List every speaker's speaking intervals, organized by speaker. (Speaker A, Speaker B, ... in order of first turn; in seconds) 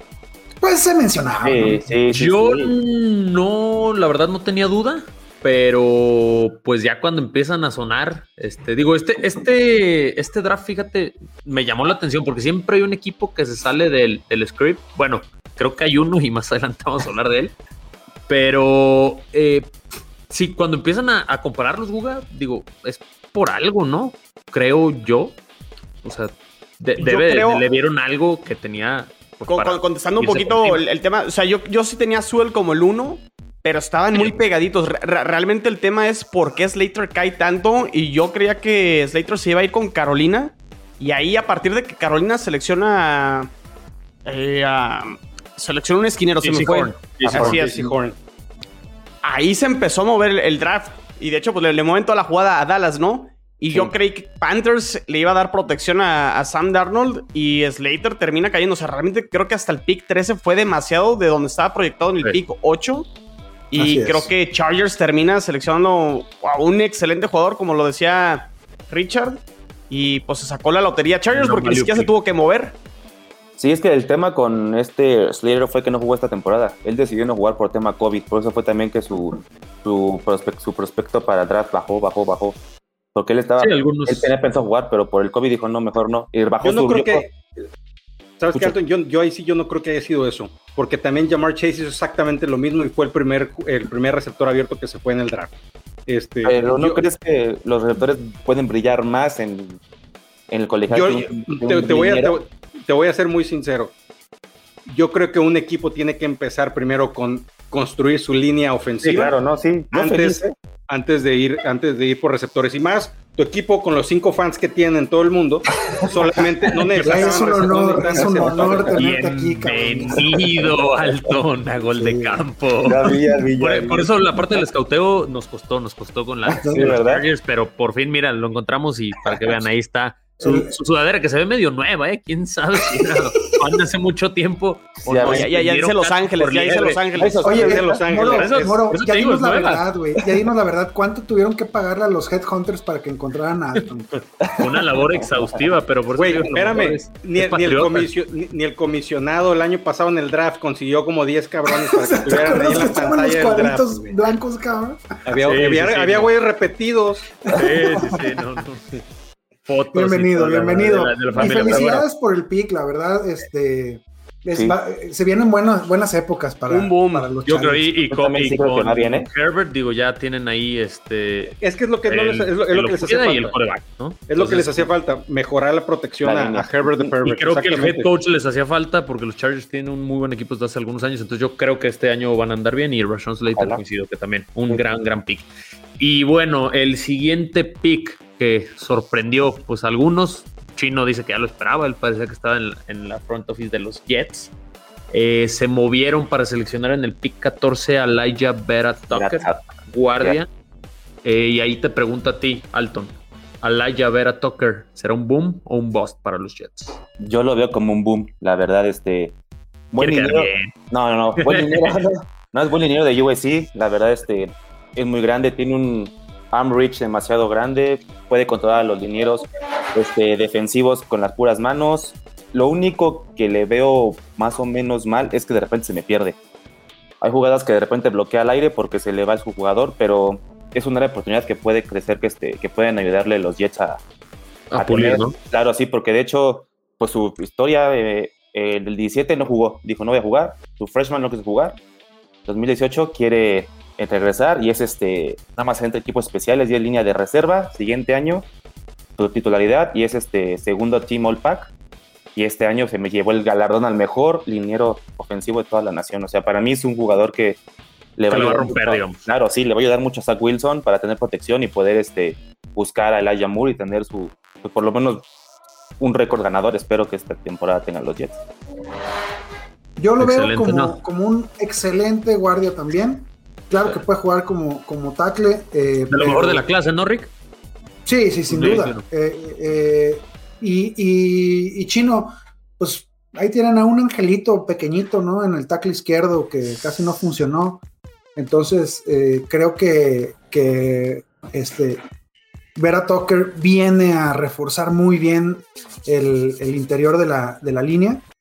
Speaker A: 0.6-1.9, 63.7-64.3, 117.0-120.2, 121.9-122.4, 126.5-127.0, 130.4-130.8, 137.4-144.2, 151.7-155.0, 157.5-158.2, 159.9-167.9, 270.0-276.6, 278.0-287.8, 288.4-292.0, 292.8-298.2
Speaker B: 1.4-2.7, 73.6-82.6, 83.1-87.3, 96.4-99.8, 100.5-102.4, 109.0-110.5, 116.0-117.1, 118.2-119.0, 120.6-121.2, 122.8-124.6, 126.5-127.3, 135.0-135.5, 137.6-138.1, 144.4-145.6, 161.3-162.0, 168.1-169.3, 176.2-177.1, 183.6-183.8, 199.1-199.7, 207.2-209.3, 209.9-226.4, 227.2-234.0, 234.8-241.8, 242.4-248.5, 249.2-251.7, 252.3-257.6, 258.2-265.2, 266.0-268.4
Speaker C: 2.1-17.5, 18.3-19.7, 20.3-25.4, 26.0-30.8, 46.4-47.6, 71.3-72.1, 83.6-84.3, 117.2-117.5, 119.0-137.5, 138.2-139.8, 144.6-148.1, 155.4-156.3, 157.5-159.1, 159.7-162.1, 167.4-174.9, 177.2-194.5, 195.1-200.5, 201.2-207.0, 210.0-210.7, 211.4-212.0, 234.7-235.3, 258.3-259.2, 270.2-271.0, 276.1-277.3, 278.5-279.0
Speaker D: 27.0-27.6, 29.5-43.5, 44.2-47.9, 49.2-63.1, 63.7-72.8, 135.2-137.8, 166.7-167.3
Speaker E: 47.2-48.1, 86.6-87.3, 88.4-95.5, 96.1-97.1, 100.9-103.9, 104.8-109.3, 109.9-118.8, 137.2-138.8, 146.1-154.2, 155.2-157.4, 171.6-173.6, 174.3-178.1